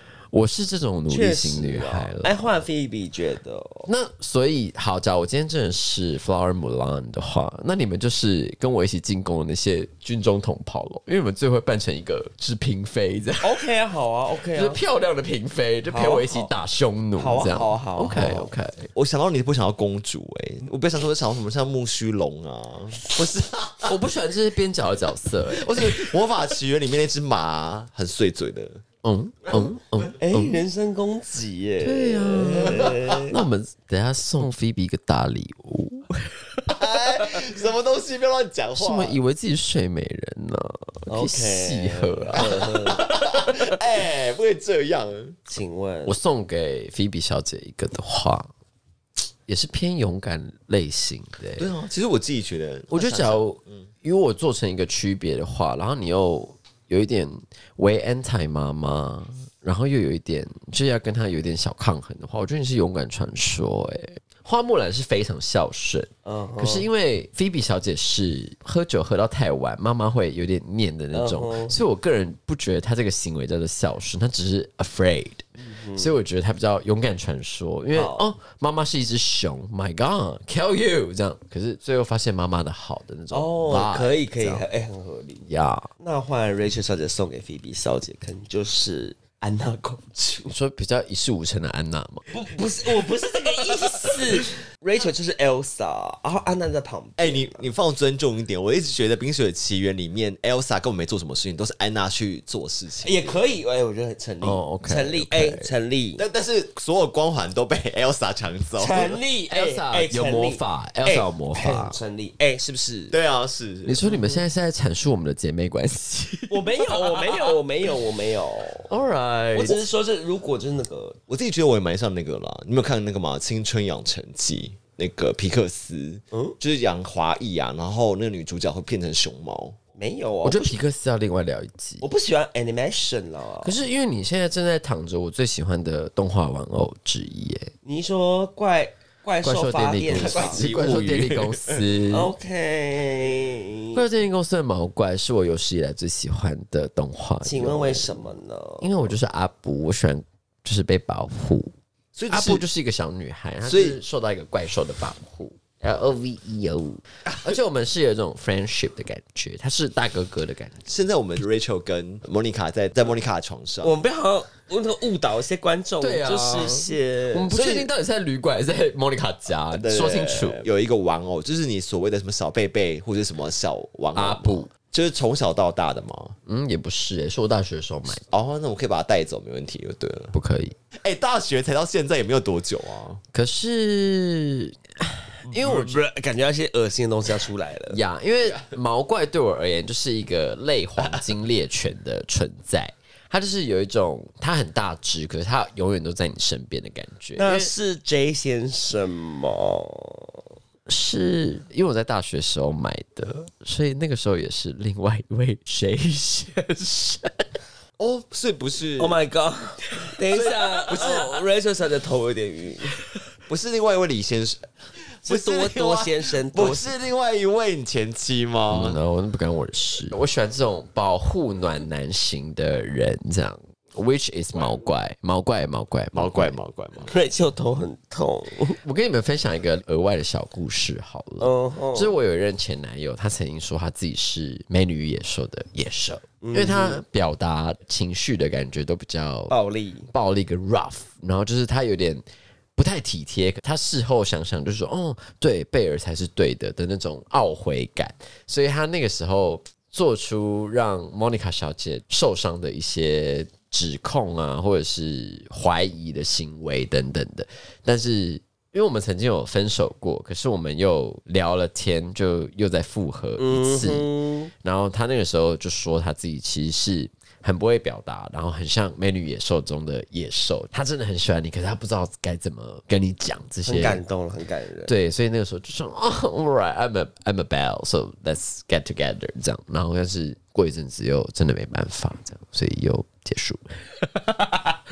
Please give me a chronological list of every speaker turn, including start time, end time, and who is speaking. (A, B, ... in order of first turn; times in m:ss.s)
0:00.3-0:02.4 A
0:01.1-0:03.9 B
0:03.8-0:13.6 A
0:13.4-0:14.8 B
0:14.5-0:18.9 A
0:15.8-0:16.5 B
0:17.2-0:18.5 B
0:18.9-0:23.9 C
0:23.8-0:26.1 A
0:25.5-0:28.8 C
0:29.0-0:30.6 A
0:30.2-0:33.4 B
0:31.8-0:36.4 A
0:36.7-0:39.2 C
0:38.7-0:42.6 A
0:41.1-0:43.3 B
0:42.4-0:45.4 C
0:45.5-0:46.2 B
0:46.0-0:48.5 A
0:49.5-0:51.7 A
0:51.6-0:53.8 C
0:52.9-1:24.6 A
1:06.2-1:06.9 B
1:11.1-1:11.8 B
1:15.6-1:16.2 B
1:17.9-1:18.3 B
1:23.3-1:25.5 B
1:25.4-1:25.9 A
1:26.0-1:30.5 B
1:30.5-1:32.3 A
1:32.3-1:37.6 B
1:37.2-1:43.3 C
1:43.0-1:46.2 B
1:44.4-1:45.7 A
1:46.2-1:49.2 C
1:48.8-1:53.1 B
1:49.5-1:52.0 A
1:53.1-1:54.0 C
1:53.8-1:56.8 A
1:54.0-1:54.4 B
1:56.5-1:58.9 B
1:58.9-1:59.8 A
1:59.5-2:01.2 B
2:01.3-2:09.8 C
2:10.0-2:10.8 B
2:10.4-2:12.0 A
2:12.0-2:13.8 B
2:13.6-2:17.7 A
2:17.8-2:20.6 B
2:19.4-2:22.3 A
2:20.1-2:21.8 C
2:22.0-2:24.0 B
2:23.9-2:31.7 A
2:27.4-2:29.0 B
2:32.1-2:32.7 C
2:32.3-2:40.9 A
2:33.6-2:34.0 C
2:37.2-2:37.5 C
2:40.8-2:43.9 C
2:43.8-2:47.8 B
2:46.0-2:50.6 A
2:49.7-2:56.3 C
2:54.1-2:54.7 A
2:56.4-2:58.2 A
2:58.1-3:00.3 C
3:00.3-3:00.8 A
3:00.9-3:03.2 C
3:03.3-3:06.0 A
3:05.4-3:05.9 C
3:05.6-3:08.0 B
3:07.9-3:17.7 A
3:17.4-3:20.4 B
3:20.9-3:27.4 A
3:28.0-3:29.2 C
3:29.0-3:33.0 B
3:30.3-3:31.3 C
3:33.5-3:34.7 C
3:35.2-3:39.0 C
3:35.2-3:36.9 B
3:38.7-3:46.6 A
3:46.1-3:47.1 C
3:47.0-3:48.8 B
3:48.8-3:59.6 A
3:51.4-3:52.1 B
3:56.4-3:57.0 B
3:59.5-4:00.1 B
4:00.1-4:02.2 A
4:02.8-4:24.1 A
4:23.4-4:24.5 B
4:24.6-4:34.0 A
4:33.6-4:34.9 B
4:34.9-4:43.6 A
4:44.3-4:44.7 A